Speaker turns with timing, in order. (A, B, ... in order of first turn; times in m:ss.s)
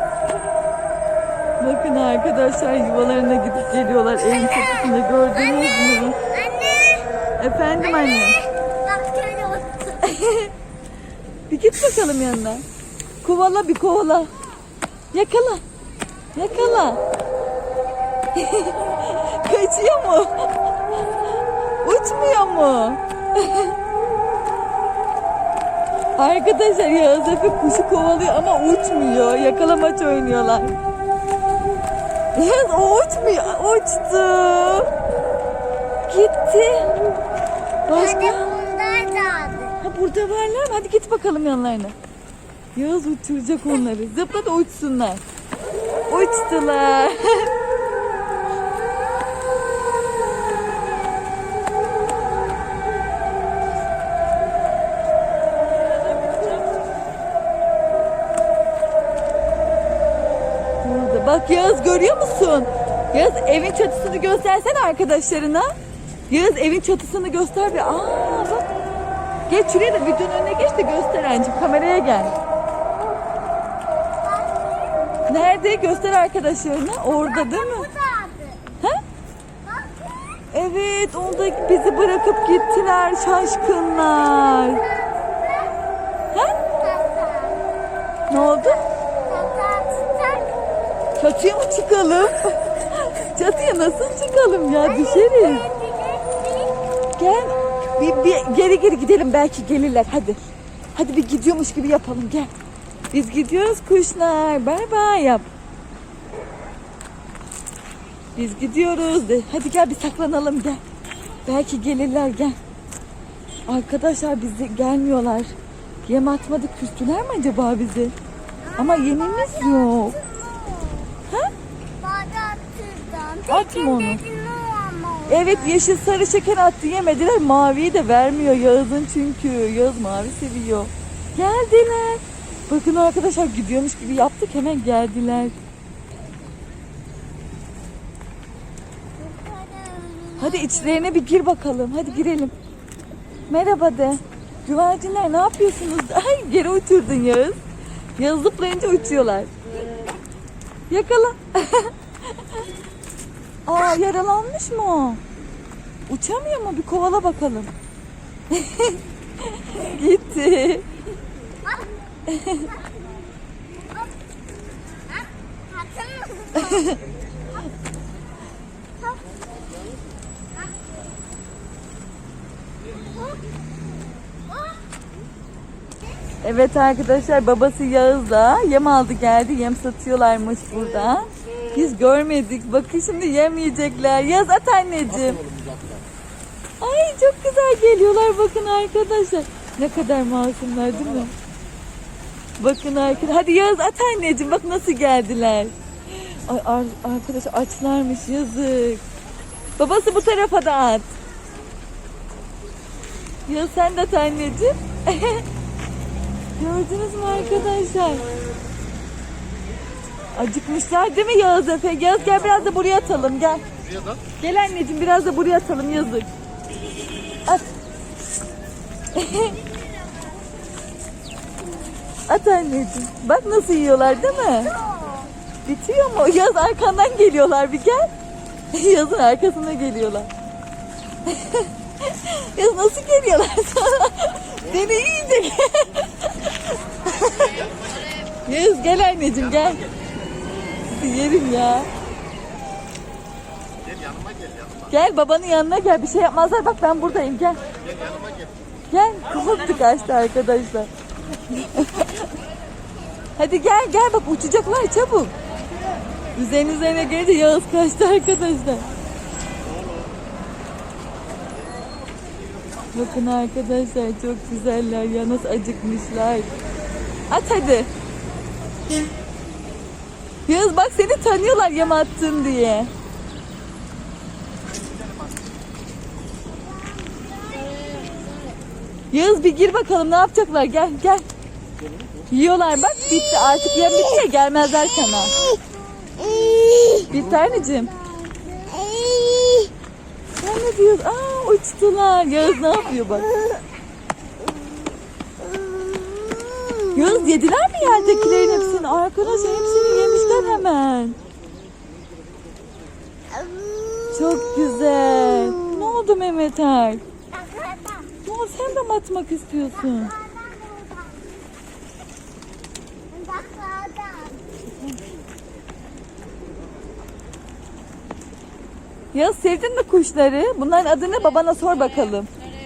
0:01.6-0:06.2 A
0:04.2-0:10.2 B
0:07.4-0:08.4 A
0:10.0-0:10.5 A
0:11.5-0:12.6 A
0:13.2-0:14.3 A
0:15.1-0:15.6 A
0:16.3-0:17.0 A
0:18.3-0:20.5 A
0:21.8-0:23.8 A
0:26.2-0:30.8 A
0:32.3-0:34.9 A
0:36.1-0:36.9 A
0:37.9-0:38.4 A
0:37.9-0:39.8 B
0:39.8-0:41.9 A
0:42.8-0:45.2 A
0:46.1-0:47.5 A
1:00.8-1:05.7 A
1:06.3-1:08.6 A
1:09.5-1:12.3 A
1:12.9-1:15.2 B
1:15.3-1:17.9 A
1:17.1-1:18.6 B
1:19.6-1:20.5 B
1:20.5-1:24.8 A
1:24.0-1:25.9 B
1:26.6-1:27.7 B
1:28.3-1:28.8 A
1:28.3-1:30.6 B
1:31.2-1:35.6 A
1:34.8-1:36.8 B
1:37.2-1:40.4 A
1:40.9-1:42.5 A
1:43.1-1:45.5 A
1:48.4-1:50.8 A
1:51.4-1:52.6 A
1:53.7-1:55.5 A
1:56.1-1:58.1 A
1:58.6-2:01.2 B
1:58.8-2:00.2 A
2:02.0-2:05.9 B
2:03.5-2:04.2 A
2:05.3-2:15.6 A
2:19.2-2:21.2 B
2:20.4-2:22.5 A
2:23.5-2:27.6 A
2:28.2-2:29.5 A
2:30.9-2:32.6 A
2:33.6-2:35.2 A
2:36.1-2:37.7 A
2:38.5-2:40.9 A
2:41.6-2:42.9 B
2:42.3-2:42.7 A
2:44.9-2:47.6 B
2:46.6-2:47.0 A
2:49.0-2:49.8 B
2:53.0-2:54.8 B
2:56.4-3:05.4 A
3:05.4-3:06.0 C
3:06.8-3:11.3 A
3:12.6-3:19.0 A
3:19.8-3:21.1 A
3:23.4-3:25.4 A
3:26.6-3:28.2 A
3:30.3-3:33.6 A
3:33.9-3:34.2 C
3:34.4-3:36.3 A
3:39.1-3:39.6 A
3:42.3-3:44.7 A
3:44.0-3:45.3 B
3:45.6-3:48.1 A
3:48.7-3:50.3 A
3:51.2-3:57.7 A
3:58.4-3:59.9 A
4:00.8-4:01.9 A
4:03.9-4:04.8 C
4:04.9-4:07.6 A
4:07.9-4:08.5 C
4:08.9-4:10.9 A
4:11.5-4:12.2 A
4:13.4-4:15.3 A
4:16.4-4:18.9 A
4:22.9-4:26.5 A
4:27.3-4:27.9 A
4:30.4-4:32.9 A
4:36.5-4:38.5 B
4:39.1-4:41.2 A
4:42.3-4:45.4 A
4:45.0-4:49.7 B
4:47.1-4:47.9 A
4:50.4-4:53.3 A
4:55.4-4:57.4 B
4:56.9-5:01.2 A
4:58.0-4:58.9 B
4:59.4-5:00.6 B
5:03.3-5:06.0 B
5:04.1-5:07.0 A
5:07.3-5:08.1 B
5:08.2-5:10.1 A
5:09.6-5:11.5 B
5:13.1-5:14.4 B
5:19.1-5:22.3 A